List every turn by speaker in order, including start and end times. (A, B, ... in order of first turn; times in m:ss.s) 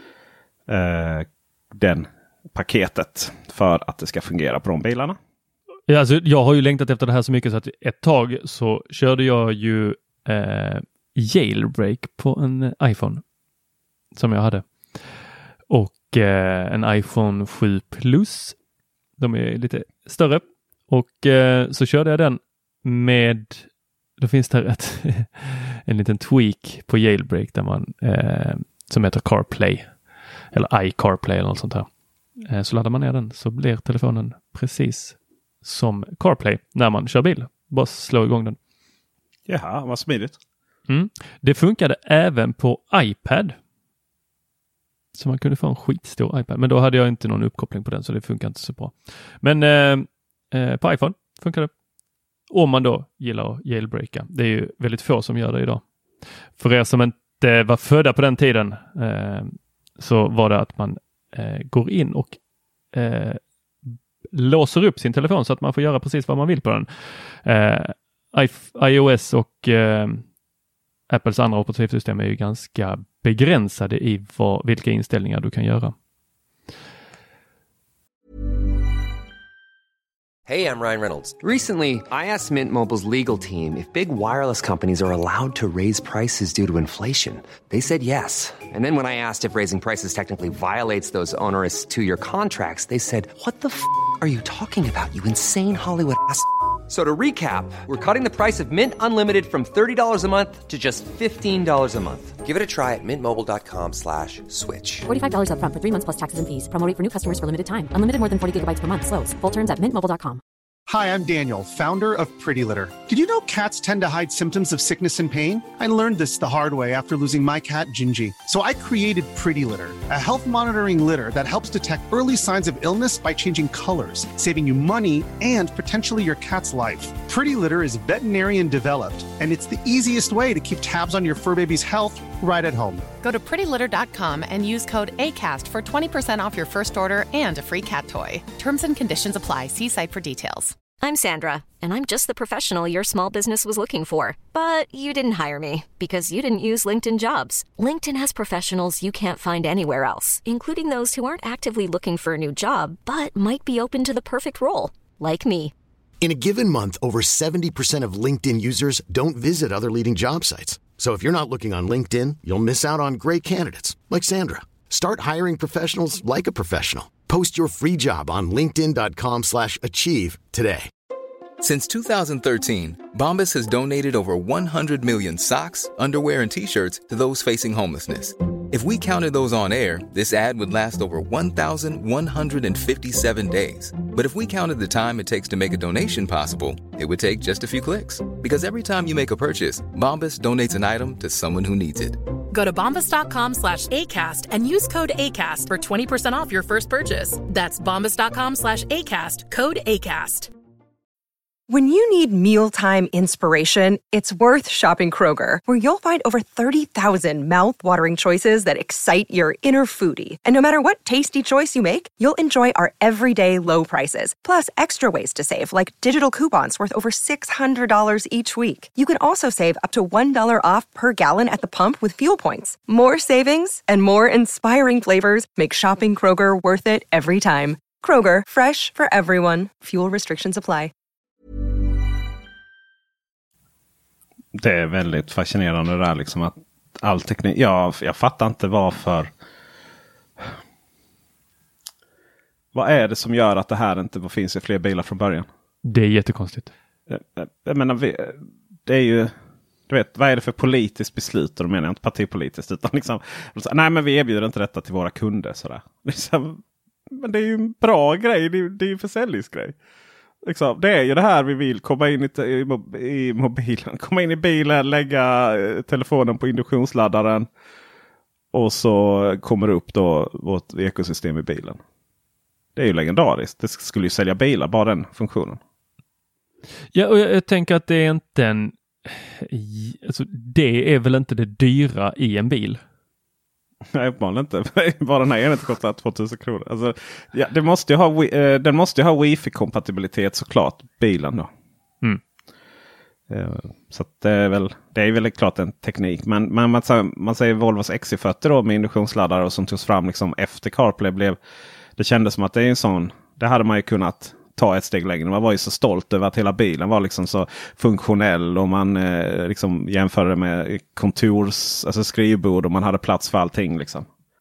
0:00.7-0:05.2 A
0:05.9-0:13.2 B
0:14.1-0:15.1 B
0:15.7-0:18.6 B
0:19.2-0:30.0 B
0:30.5-0:38.6 B
0:39.5-0:40.4 A
0:40.9-0:43.6 B
0:45.1-0:51.7 B
0:52.5-0:55.8 B
0:56.6-1:02.4 B
1:02.9-1:10.2 B
1:11.1-1:15.9 B
1:21.3-1:45.0 C
1:45.0-1:50.4 D
1:50.9-2:13.0 E
2:13.2-2:20.8 F
2:21.0-2:35.7 G
2:36.2-2:50.9 H
2:51.6-3:12.2 I
3:12.5-3:20.5 J
3:21.7-3:50.9 K
3:54.5-3:59.3 A
4:02.7-4:05.5 A
4:05.8-4:06.7 B
4:07.1-4:09.3 A
4:09.9-4:19.7 A
4:20.4-4:27.5 A
4:28.5-4:31.8 A
4:32.8-4:35.6 A
4:36.9-4:42.8 B
4:43.9-4:51.5 A
4:53.3-5:01.4 A
5:02.0-5:14.1 A